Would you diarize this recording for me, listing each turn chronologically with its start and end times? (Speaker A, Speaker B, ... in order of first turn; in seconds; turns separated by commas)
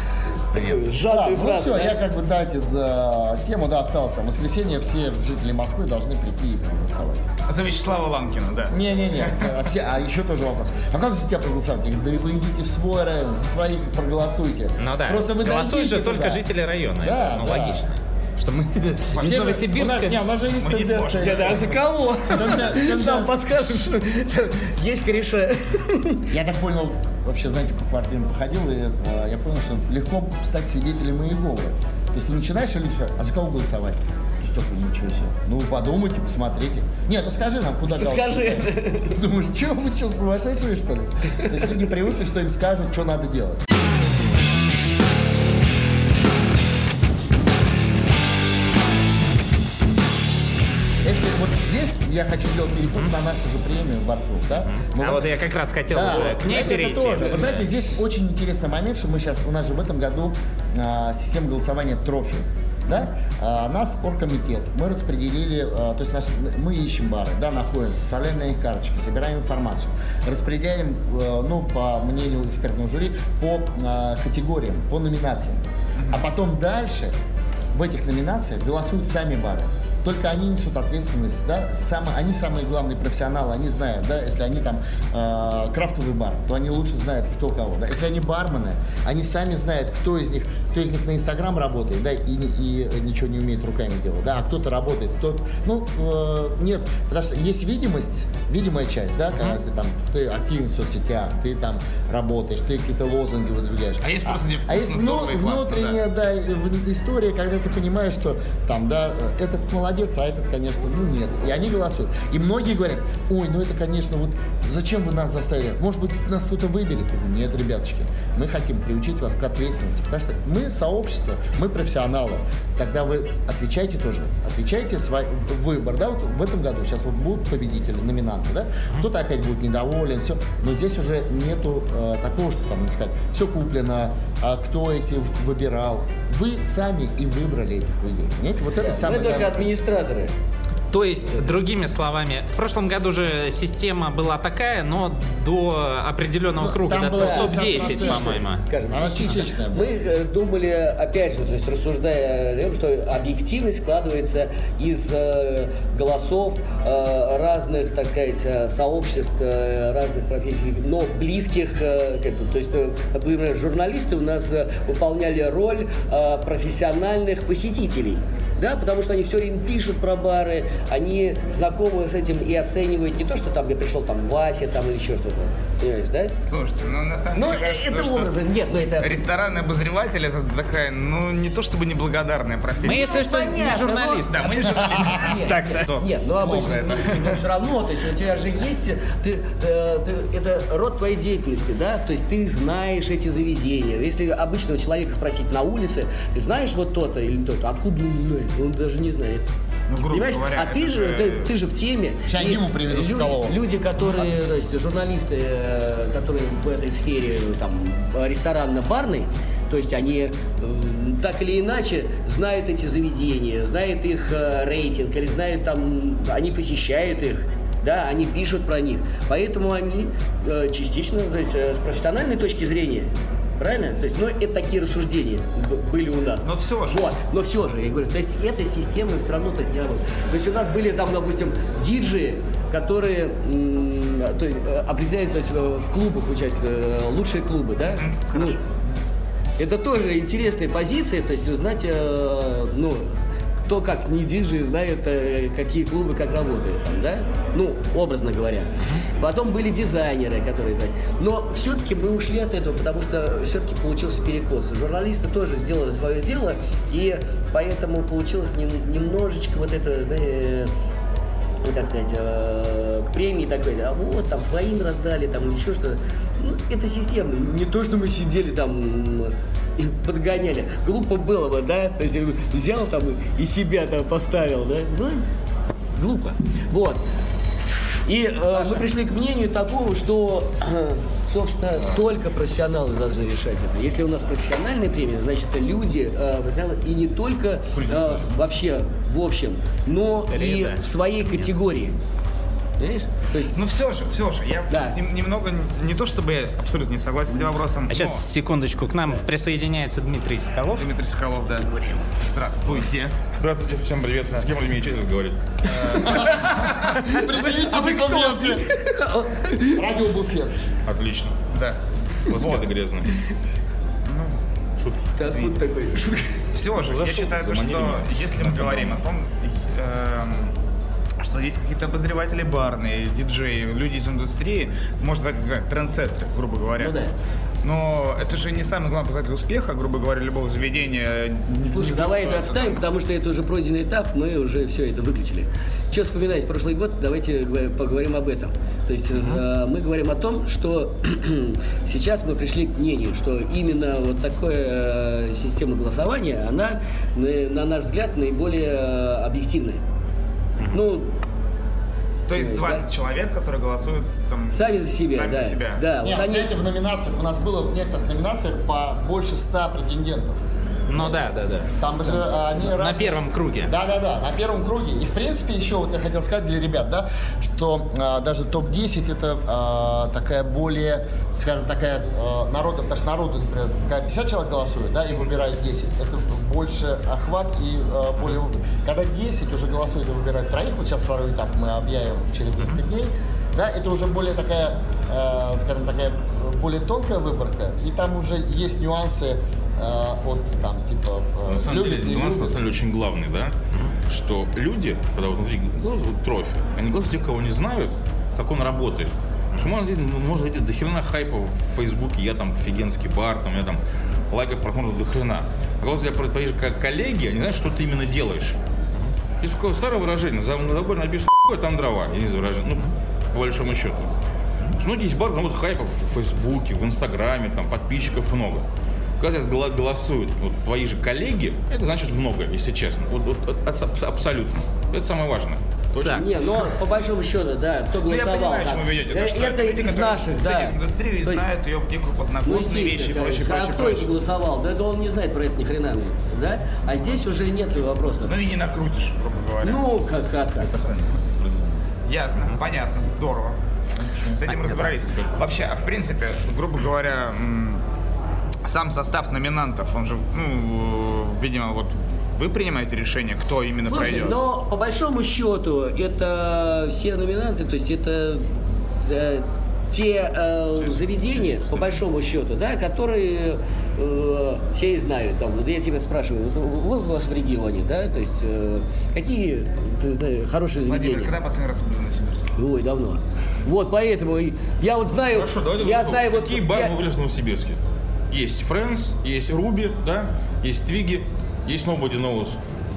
Speaker A: 0.5-2.0, Speaker B: 0.5-0.9, Speaker C: 1.0-7.2, Speaker B: 7.5-9.6, Speaker C: 8.7-16.4, Speaker D: 14.8-20.2, Speaker C: 17.0-17.9, Speaker B: 19.1-19.5, Speaker C: 19.2-21.7, Speaker B: 20.6-21.9, Speaker A: 21.2-26.3, Speaker C: 22.3-23.3, Speaker C: 26.3-43.6, Speaker A: 37.9-39.2, Speaker C: 51.0-55.3, Speaker D: 54.6-57.7, Speaker C: 55.9-77.1, Speaker B: 76.0-76.2, Speaker C: 77.7-139.7, Speaker B: 104.0-106.0, Speaker A: 138.8-140.3, Speaker D: 140.9-149.2, Speaker C: 146.6-149.9, Speaker A: 147.1-176.3, Speaker B: 176.5-178.3, Speaker A: 177.3-179.2, Speaker B: 179.0-183.3, Speaker D: 182.8-185.9, Speaker A: 182.8-184.3, Speaker B: 184.2-187.4, Speaker A: 185.0-199.5, Speaker B: 199.9-201.5, Speaker A: 200.0-238.6, Speaker C: 202.3-203.6, Speaker B: 226.4-227.1, Speaker B: 238.0-238.6, Speaker A: 239.6-243.2, Speaker A: 243.7-260.7, Speaker A: 261.6-275.3, Speaker A: 276.0-277.0, Speaker A: 278.1-292.0, Speaker B: 278.6-278.9, Speaker B: 287.7-288.3, Speaker D: 290.3-291.4, Speaker A: 292.8-293.6, Speaker B: 293.5-298.3, Speaker A: 294.7-295.0, Speaker D: 297.9-300.9, Speaker B: 300.8-303.2, Speaker E: 302.7-305.5, Speaker B: 305.6-306.9, Speaker C: 306.0-308.6, Speaker A: 306.9-309.9, Speaker C: 309.6-310.6, Speaker E: 310.9-311.4, Speaker B: 311.5-312.7, Speaker E: 312.3-313.1, Speaker B: 314.1-314.4, Speaker E: 314.8-315.1, Speaker A: 315.2-316.4, Speaker B: 315.2-315.6, Speaker B: 316.5-320.5, Speaker E: 316.8-319.0, Speaker B: 321.2-326.9, Speaker A: 326.8-327.1, Speaker B: 327.6-332.8, Speaker A: 331.6-349.8, Speaker A: 350.7-351.1, Speaker B: 352.3-355.9, Speaker A: 352.4-352.8, Speaker A: 354.5-356.5, Speaker C: 356.0-360.4, Speaker D: 360.9-363.7, Speaker C: 360.9-392.6, Speaker E: 391.5-393.5, Speaker E: 394.1-403.8, Speaker E: 404.3-408.6, Speaker E: 409.4-414.1, Speaker E: 414.7-418.7, Speaker E: 419.2-426.3, Speaker A: 426.0-431.5, Speaker B: 428.0-434.1, Speaker A: 432.4-438.4, Speaker B: 438.2-439.8, Speaker A: 439.6-440.7, Speaker B: 440.7-441.2, Speaker B: 442.1-447.9, Speaker D: 444.5-444.9, Speaker B: 448.6-454.4, Speaker A: 453.9-471.3, Speaker B: 470.9-472.6, Speaker A: 472.6-477.0, Speaker E: 475.2-482.6